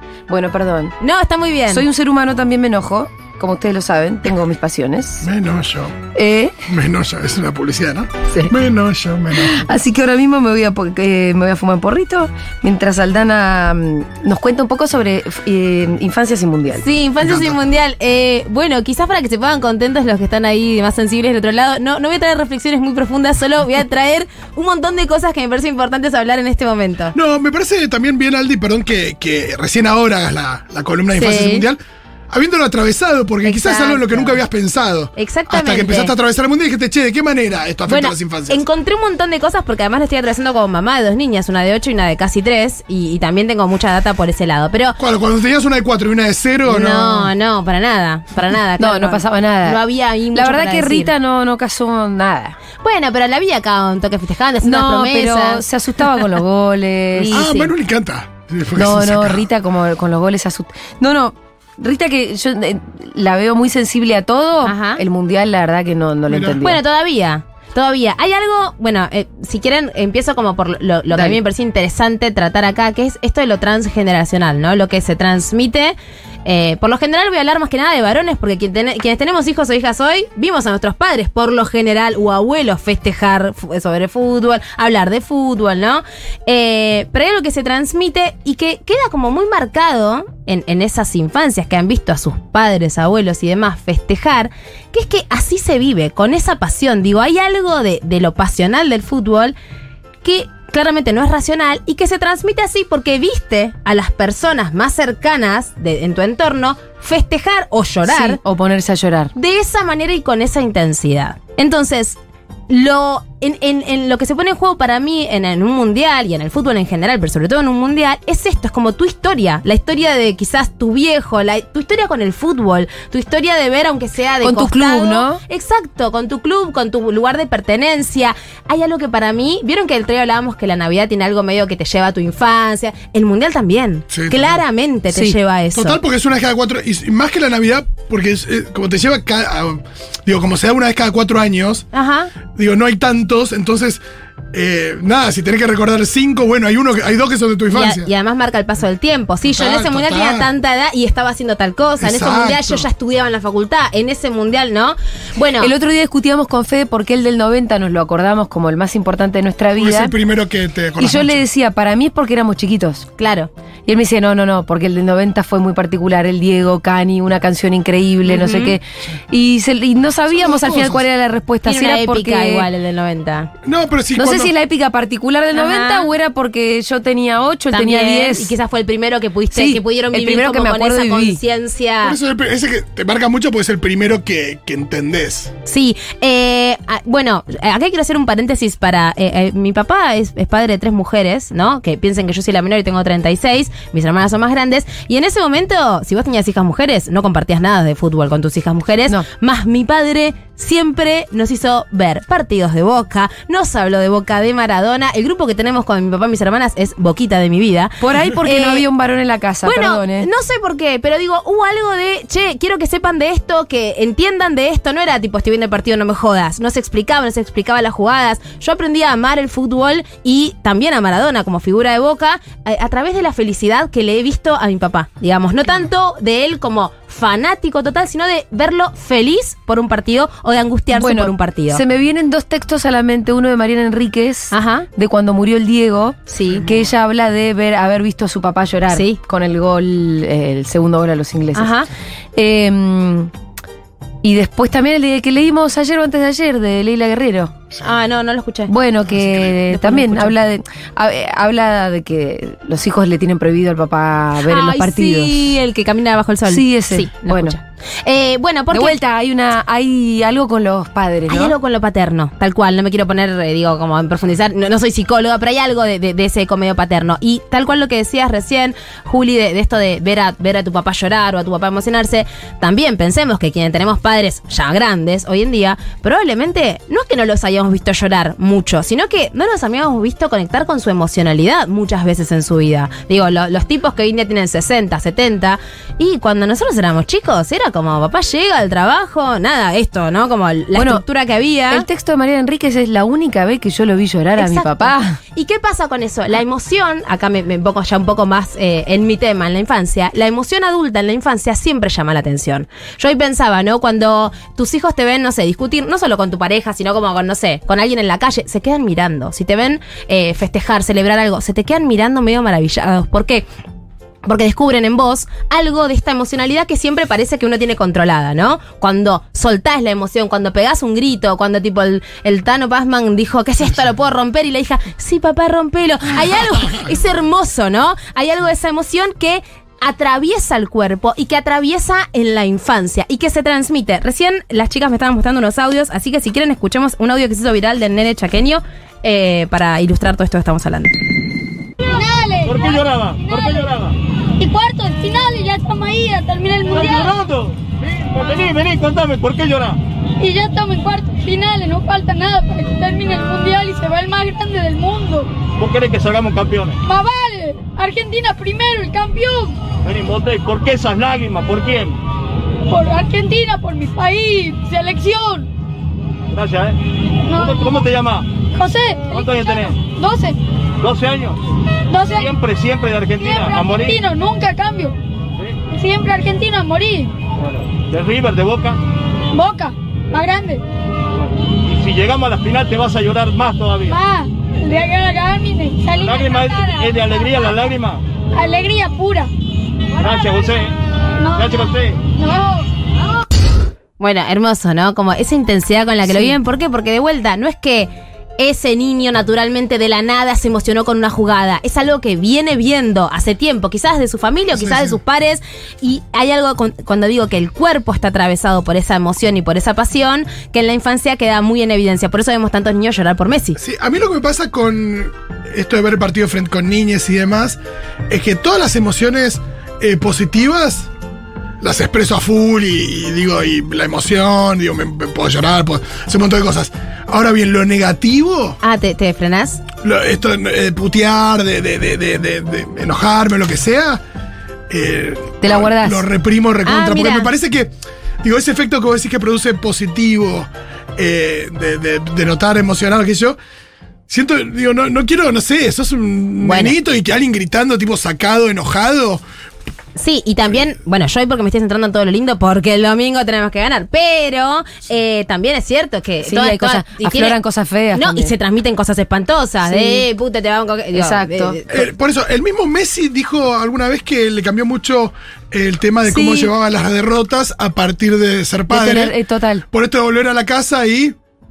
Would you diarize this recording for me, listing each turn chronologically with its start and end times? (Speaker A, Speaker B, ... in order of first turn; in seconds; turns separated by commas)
Speaker A: 0.3-0.9, Speaker B: 1.0-1.9, Speaker A: 1.7-5.3, Speaker C: 5.2-6.0, Speaker A: 6.1-6.6, Speaker C: 6.7-9.6, Speaker A: 9.3-16.8, Speaker B: 16.7-27.1, Speaker C: 17.2-17.6, Speaker C: 27.1-38.6, Speaker B: 31.1-31.7, Speaker B: 33.4-34.4, Speaker B: 35.1-36.1, Speaker B: 37.9-45.0, Speaker C: 45.0-47.3, Speaker B: 46.6-51.1, Speaker A: 48.8-49.8, Speaker A: 50.3-52.6, Speaker B: 52.8-56.2, Speaker A: 54.6-57.4, Speaker B: 57.2-57.7, Speaker C: 57.3-59.4, Speaker A: 58.7-66.8, Speaker B: 64.6-65.0, Speaker C: 66.3-66.6, Speaker B: 66.6-99.5, Speaker B: 100.2-108.4, Speaker A: 108.1-109.3, Speaker B: 109.3-112.2, Speaker B: 112.7-136.0, Speaker A: 124.4-125.4, Speaker C: 134.1-134.6, Speaker C: 135.7-141.8, Speaker B: 141.9-142.3, Speaker C: 142.5-144.0, Speaker C: 144.5-148.1, Speaker B: 147.7-155.7, Speaker C: 149.4-150.5, Speaker C: 152.0-152.9, Speaker A: 155.6-160.1, Speaker C: 159.7-161.4, Speaker A: 161.0-163.1, Speaker B: 163.2-163.5, Speaker A: 163.9-172.7, Speaker B: 168.2-168.8, Speaker C: 170.5-171.0, Speaker B: 171.7-173.5, Speaker C: 173.6-174.5, Speaker A: 174.2-178.5, Speaker B: 175.5-176.1, Speaker B: 177.7-182.2, Speaker A: 179.5-181.4, Speaker C: 182.0-185.5, Speaker B: 185.7-208.8, Speaker A: 208.0-210.3, Speaker B: 209.6-231.8, Speaker A: 230.9-241.7, Speaker B: 234.5-234.9, Speaker B: 236.3-236.7, Speaker B: 238.9-239.2, Speaker B: 241.5-241.9, Speaker A: 242.3-243.3, Speaker A: 244.2-247.5, Speaker B: 247.8-248.7, Speaker A: 248.7-255.4, Speaker B: 249.7-250.3, Speaker B: 254.4-259.0, Speaker A: 256.5-257.6, Speaker A: 258.7-261.5, Speaker B: 261.3-291.9, Speaker A: 290.7-291.0, Speaker A: 291.7-295.2, Speaker B: 294.4-313.4, Speaker B: 314.2-341.0, Speaker D: 341.8-343.7, Speaker E: 342.4-343.9, Speaker D: 344.4-347.1, Speaker E: 346.7-349.8, Speaker D: 350.2-355.3, Speaker E: 355.6-356.8, Speaker D: 356.8-359.6, Speaker E: 359.8-362.0, Speaker D: 362.7-365.5, Speaker E: 366.3-366.8, Speaker D: 367.2-367.9, Speaker E: 367.3-368.3, Speaker D: 368.5-370.4, Speaker E: 369.1-369.8, Speaker E: 370.8-371.4, Speaker D: 371.9-372.3, Speaker E: 372.1-374.0, Speaker D: 373.2-374.9, Speaker D: 375.7-377.1, Speaker E: 377.4-378.8, Speaker D: 379.3-380.6, Speaker E: 381.6-384.0, Speaker D: 383.9-386.9, Speaker E: 386.0-388.0, Speaker D: 388.3-389.3, Speaker E: 390.0-390.7, Speaker D: 391.2-392.6, Speaker E: 391.3-392.0, Speaker B: 394.0-413.6, Speaker C: 404.5-405.0, Speaker C: 413.6-417.6, Speaker C: 418.1-420.9, Speaker C: 421.6-428.6, Speaker B: 428.6-429.6, Speaker C: 429.8-434.0, Speaker C: 434.7-443.4, Speaker A: 435.4-436.0, Speaker B: 436.6-437.3, Speaker C: 444.1-449.2, Speaker B: 446.4-446.7, Speaker B: 449.9-457.4, Speaker A: 456.2-458.3, Speaker B: 457.9-461.9, Speaker A: 459.7-460.0, Speaker A: 460.9-461.6, Speaker C: 461.7-469.1, Speaker A: 466.1-466.5, Speaker A: 468.7-469.6, Speaker C: 469.7-471.1